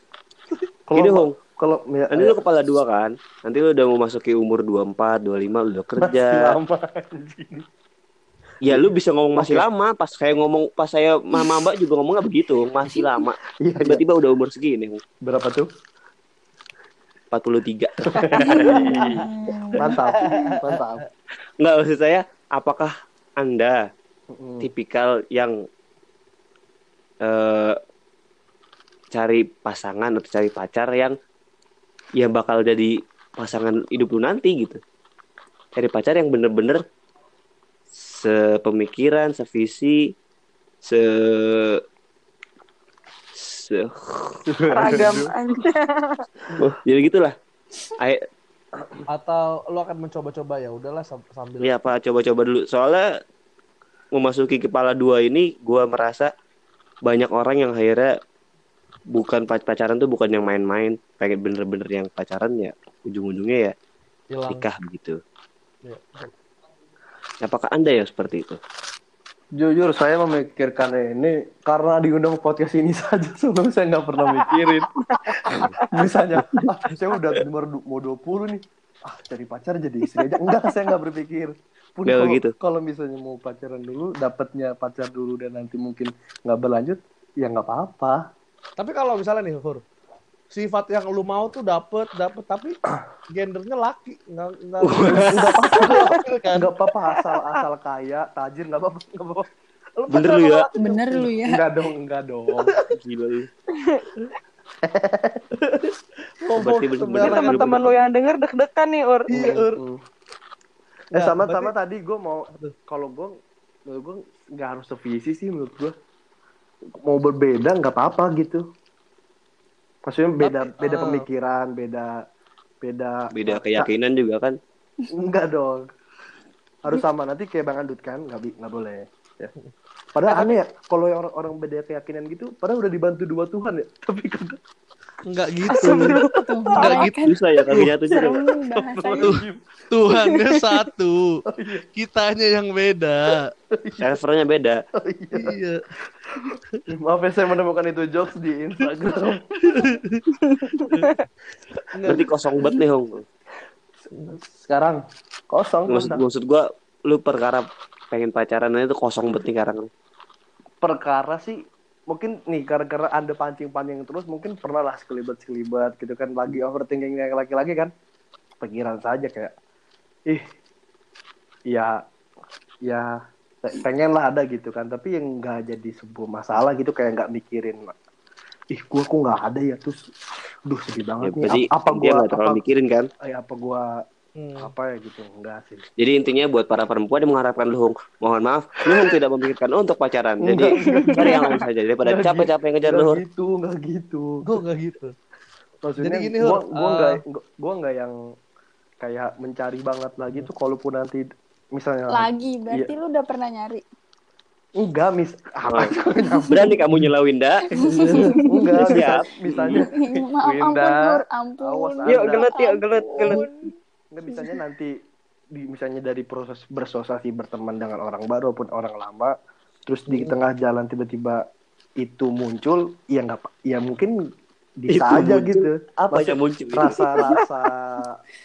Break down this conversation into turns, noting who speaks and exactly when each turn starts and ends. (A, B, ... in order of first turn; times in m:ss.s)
0:00.9-0:02.4 A
0:00.9-0:01.4 B
0:02.1-0:06.6 B
0:06.0-0:07.6 A
0:08.6-0:15.0 B
0:08.6-0:09.6 A
0:13.6-0:14.0 A
0:15.2-0:15.7 A
0:17.3-0:18.7 B
0:18.0-0:21.0 A
0:18.3-0:19.1 C
0:18.4-0:20.5 D
0:20.0-0:21.0 C
0:21.6-0:23.8 B
0:24.3-0:24.7 A
0:24.6-0:25.5 B
0:27.2-0:27.7 B
0:29.1-0:31.1 B
0:32.2-0:34.8 B
0:35.7-0:36.8 B
0:37.9-0:40.1 B
0:40.8-0:41.8 B
0:43.4-0:45.1 B
0:44.5-0:45.3 A
0:44.7-0:46.2 E
0:46.6-0:47.3 B
0:48.0-0:48.2 B
0:49.1-0:51.7 C
0:51.6-0:53.0 B
0:54.1-0:56.3 B
0:57.0-0:58.1 B
0:59.1-1:03.7 B
1:04.3-1:04.6 C
1:04.5-1:05.2 B
1:05.8-1:06.3 C
1:07.4-1:08.6 B
1:09.6-1:14.9 A
1:15.1-1:15.8 E
1:15.9-1:28.2 A
1:22.0-1:22.5 B
1:28.8-1:29.8 C
1:30.5-1:32.8 C
1:33.3-1:36.7 C
1:34.8-1:35.5 B
1:35.0-1:39.5 A
1:40.0-1:41.2 C
1:40.1-1:40.6 B
1:40.8-1:41.6 D
1:41.4-1:42.7 A
1:42.9-1:43.5 B
1:43.8-1:44.0 E
1:44.8-1:45.4 A
1:45.6-1:45.9 C
1:46.4-1:47.9 C
1:46.6-1:47.9 B
1:47.2-1:49.6 E
1:49.3-1:49.8 C
1:49.4-1:50.0 A
1:51.1-1:53.4 A
1:51.2-1:51.7 C
1:53.9-1:55.9 A
1:57.0-1:58.6 A
2:00.0-2:02.1 A
2:00.4-2:01.2 C
2:02.8-2:03.9 A
2:03.3-2:04.6 B
2:05.1-2:05.9 A
2:06.8-2:09.5 A
2:10.1-2:14.6 A
2:10.3-2:10.5 C
2:15.2-2:16.2 C
2:15.7-2:17.0 E
2:15.8-2:19.4 D
2:16.8-2:17.2 C
2:17.0-2:18.4 B
2:18.2-2:19.6 A
2:19.1-2:21.4 C
2:21.5-2:21.8 A
2:21.9-2:23.5 C
2:23.7-2:24.2 A
2:24.0-2:24.8 B
2:25.0-2:25.6 A
2:25.3-2:25.8 C
2:26.3-2:30.0 A
2:29.6-2:30.2 C
2:30.8-2:31.2 C
2:31.9-2:32.3 C
2:32.1-2:33.2 B
2:34.3-2:36.2 A
2:35.9-2:39.9 B
2:40.8-2:47.9 A
2:48.6-2:49.5 A
2:51.7-2:52.0 A
2:52.8-2:53.1 A
2:53.6-2:57.9 A
2:58.7-3:00.0 A
3:00.7-3:02.6 A
3:01.2-3:03.1 B
3:03.2-3:03.9 A
3:04.4-3:04.7 C
3:04.6-3:05.8 A
3:06.0-3:13.2 B
3:10.4-3:14.4 A
3:10.8-3:11.6 E
3:14.4-3:15.1 C
3:15.8-3:18.1 A
3:16.0-3:17.2 C
3:19.0-3:22.9 A
3:22.1-3:23.8 D
3:24.8-3:26.8 A
3:25.6-3:25.9 B
3:26.5-3:27.8 B
3:27.7-3:28.9 D
3:27.9-3:32.5 A
3:28.0-3:28.4 C
3:28.8-3:29.8 B
3:29.7-3:33.7 D
3:32.1-3:33.4 E
3:34.1-3:34.9 A
3:34.3-3:34.6 D
3:35.6-3:39.3 A
3:39.9-3:41.4 A
3:42.0-3:44.1 A
3:44.8-3:48.2 A
3:44.9-3:47.4 B